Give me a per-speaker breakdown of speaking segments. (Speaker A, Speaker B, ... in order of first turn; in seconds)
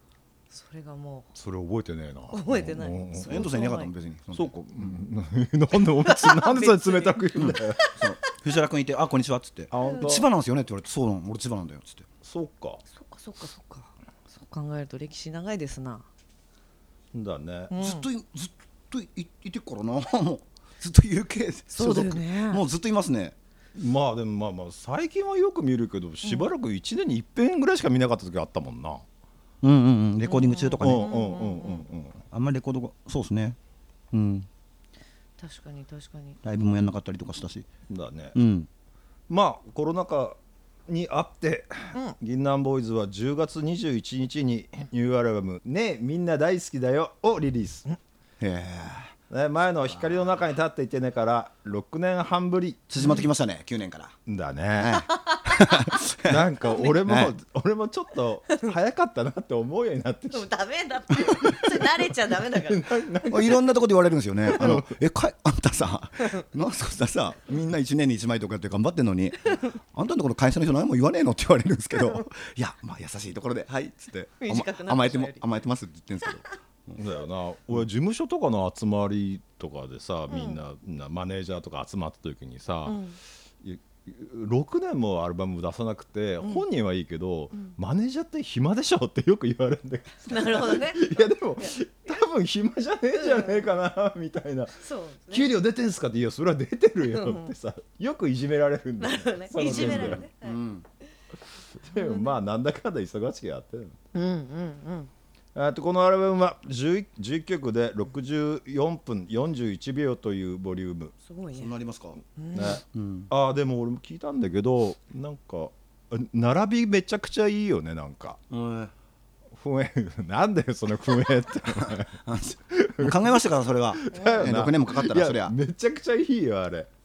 Speaker A: 0.5-1.3, 2.3-3.9, 6.0-8.1, 12.9-16.1, 17.7-18.1, 21.7-22.6, 30.2-31.9, 35.4-36.4, 55.0-56.0, 60.3-63.0, 74.4-75.5, 80.3-80.6, 82.8-83.2, 90.2-91.1, 91.6-92.2, 93.1-93.6, 94.8-95.5, 97.0-97.5, 99.0-100.6, 101.9-102.3, 104.1-105.1, 111.2-111.7, 112.4-112.8, 124.1-124.5
Speaker B: 1.3-3.5, 4.3-8.0, 9.7-10.3, 12.2-12.8, 17.1-17.7, 23.7-29.0, 30.8-32.2, 37.9-38.4, 39.3-40.4, 40.9-47.9, 49.3-53.0, 54.3-55.1, 56.2-60.5, 61.1-63.7, 64.5-64.9, 77.0-83.0, 83.6-94.8, 95.3-100.2, 101.8-104.0, 105.5-111.1, 112.5-118.4, 119.5-126.9
Speaker C: 3.2-5.0, 7.4-12.1, 17.7-23.3, 29.6-31.2, 32.3-33.6, 34.1-34.5, 36.4-37.7, 38.3-38.7, 48.4-49.1, 52.9-54.1, 54.8-57.3, 63.3-77.0, 99.5-100.8, 111.5-112.2, 112.9-113.3, 118.5-118.9, 121.0-125.5